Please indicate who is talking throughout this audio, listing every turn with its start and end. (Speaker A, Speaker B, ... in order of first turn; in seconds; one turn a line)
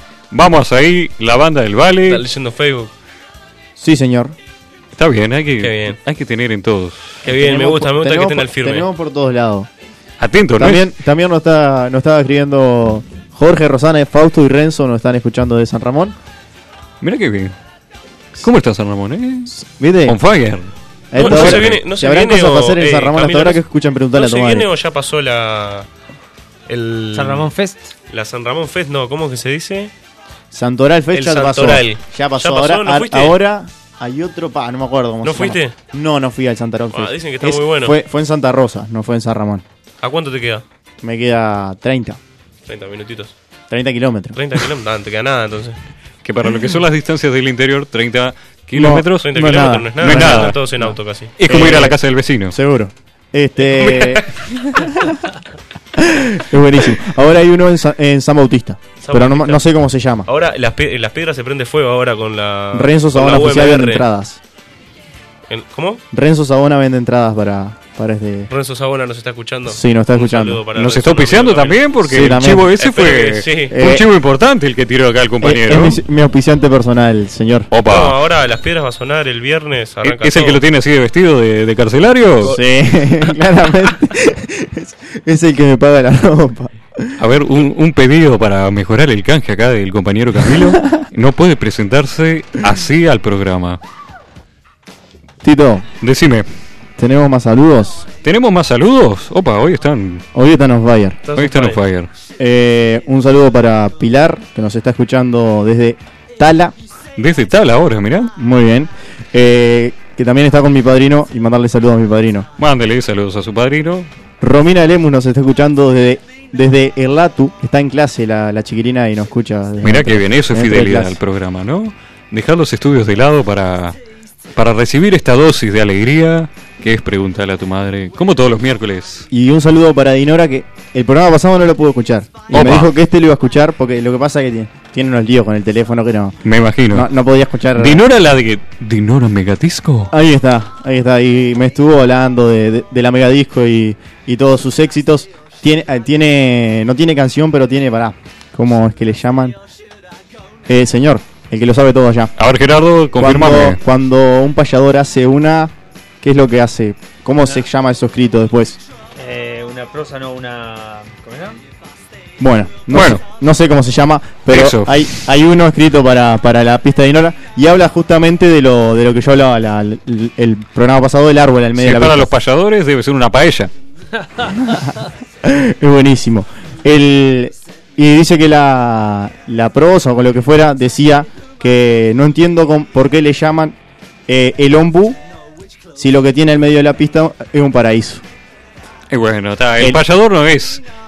Speaker A: 0.3-2.2
Speaker B: 2.0-2.9
Speaker C: 3.8-4.4
Speaker A: 5.0-7.2
Speaker B: 5.6-6.0
Speaker B: 7.2-8.9
Speaker C: 7.2-9.7
Speaker A: 10.2-10.9
Speaker C: 10.6-16.2
Speaker A: 17.0-17.6
Speaker A: 18.4-19.5
Speaker C: 19.5-20.2
Speaker A: 20.1-21.8
Speaker C: 21.1-24.7
Speaker B: 21.2-23.6
Speaker B: 24.1-25.9
Speaker B: 26.7-27.5
Speaker D: 27.1-27.9
Speaker B: 28.1-29.9
Speaker C: 30.5-39.6
Speaker B: 31.1-33.4
Speaker B: 35.2-35.7
Speaker B: 36.9-38.0
Speaker B: 40.0-40.6
Speaker C: 41.0-42.2
Speaker B: 42.7-43.4
Speaker C: 43.7-44.4
Speaker B: 44.3-45.8
Speaker A: 46.2-50.6
Speaker C: 48.7-52.0
Speaker B: 49.2-51.3
Speaker A: 51.4-52.5
Speaker C: 52.5-55.3
Speaker B: 53.6-54.4
Speaker C: 56.0-60.3
Speaker B: 59.0-59.6
Speaker B: 60.3-64.1
Speaker C: 62.7-64.4
Speaker B: 65.5-66.0
Speaker C: 66.1-68.5
Speaker B: 68.5-71.9
Speaker C: 69.7-70.6
Speaker A: 70.8-76.0
Speaker C: 72.0-72.7
Speaker B: 72.8-73.8
Speaker C: 73.7-74.1
Speaker C: 75.4-77.7
Speaker A: 77.7-78.2
Speaker B: 77.8-80.6
Speaker A: 80.0-82.6
Speaker C: 82.4-87.2
Speaker A: 87.2-93.8
Speaker C: 95.4-95.9
Speaker A: 96.0-96.5
Speaker C: 97.0-98.1
Speaker A: 98.2-100.2
Speaker C: 100.3-101.2
Speaker B: 101.2-101.8
Speaker A: 101.4-102.1
Speaker C: 102.4-106.7
Speaker A: 107.2-108.3
Speaker C: 108.4-112.5
Speaker A: 112.6-114.1
Speaker C: 114.4-121.2
Speaker A: 119.8-124.0
Speaker A: 124.5-129.3
Speaker C: 129.3-136.4
Speaker A: 132.5-132.9
Speaker A: 136.4-137.1
Speaker C: 136.9-138.1
Speaker A: 137.8-140.1
Speaker C: 140.1-149.6
Speaker C: 150.7-152.3
Speaker A: 152.4-153.8
Speaker C: 153.2-158.8
Speaker D: 159.2-161.6
Speaker C: 162.4-172.3
Speaker A: 162.9-163.2
Speaker A: 164.5-165.1
Speaker A: 171.8-173.7
Speaker C: 174.5-183.8
Speaker C: 184.3-185.2
Speaker C: 186.0-188.2
Speaker A: 189.1-190.8